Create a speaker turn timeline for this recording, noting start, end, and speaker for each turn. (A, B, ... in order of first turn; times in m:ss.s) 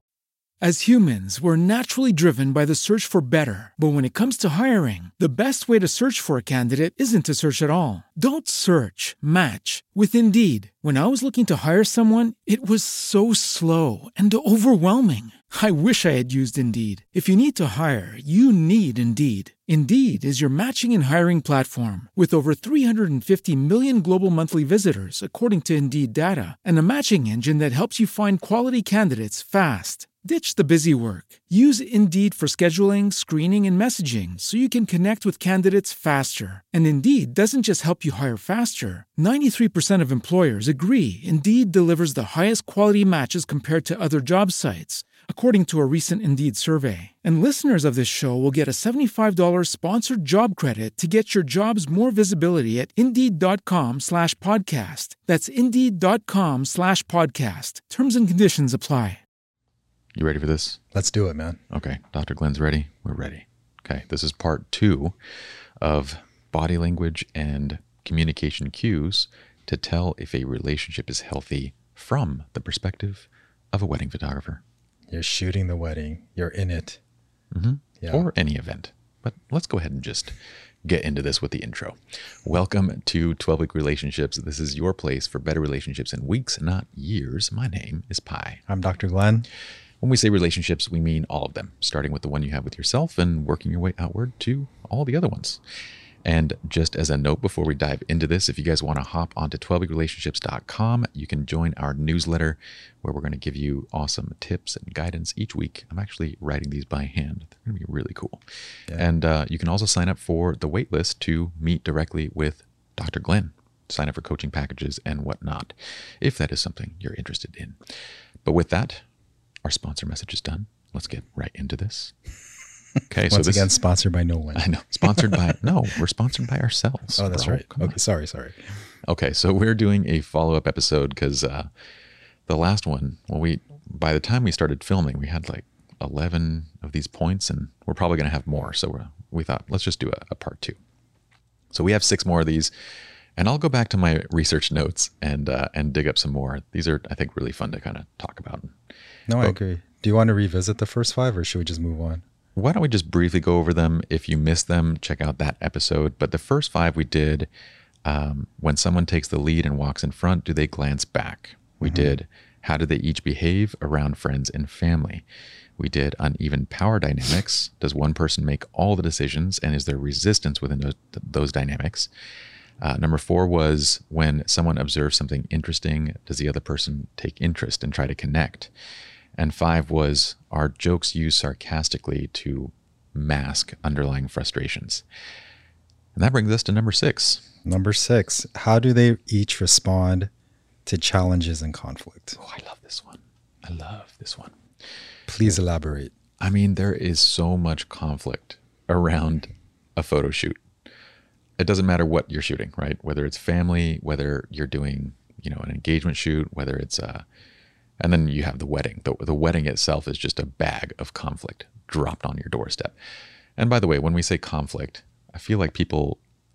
0:00.6-0:59.2 A
1:00.2-1:00.8 B
1:00.9-1:01.6 C
1:01.7-1:05.2 B
1:05.8-1:14.6 B
1:15.1-1:17.0 C
1:17.5-1:28.6 B
1:18.0-1:18.3 C
1:28.7-1:29.5 C
1:30.0-1:35.6 B
1:36.2-1:48.4 B
1:48.9-1:57.8 B
1:58.4-1:59.0 B
1:59.6-2:02.1 B
2:03.1-2:03.7 B
2:03.3-2:05.4 C
2:04.6-2:08.0 B
2:07.2-2:08.8 C
2:09.1-2:11.7 B
2:12.5-2:20.8 B
2:21.7-2:22.7 B
2:23.4-2:28.7 B
2:29.3-2:32.2 C
2:32.6-2:37.5 B
2:38.0-2:45.2 B
2:41.8-2:42.1 C
2:45.8-2:52.1 B
2:52.8-2:58.7 B
2:59.4-3:05.0 B
3:06.1-3:07.4 B
3:07.6-3:10.3 C
3:10.8-3:12.4 C
3:12.4-3:14.5 B
3:15.3-3:16.1 C
3:16.4-3:20.6 B
3:21.6-3:27.2 B
3:28.0-3:32.9 B
3:33.6-3:36.2 B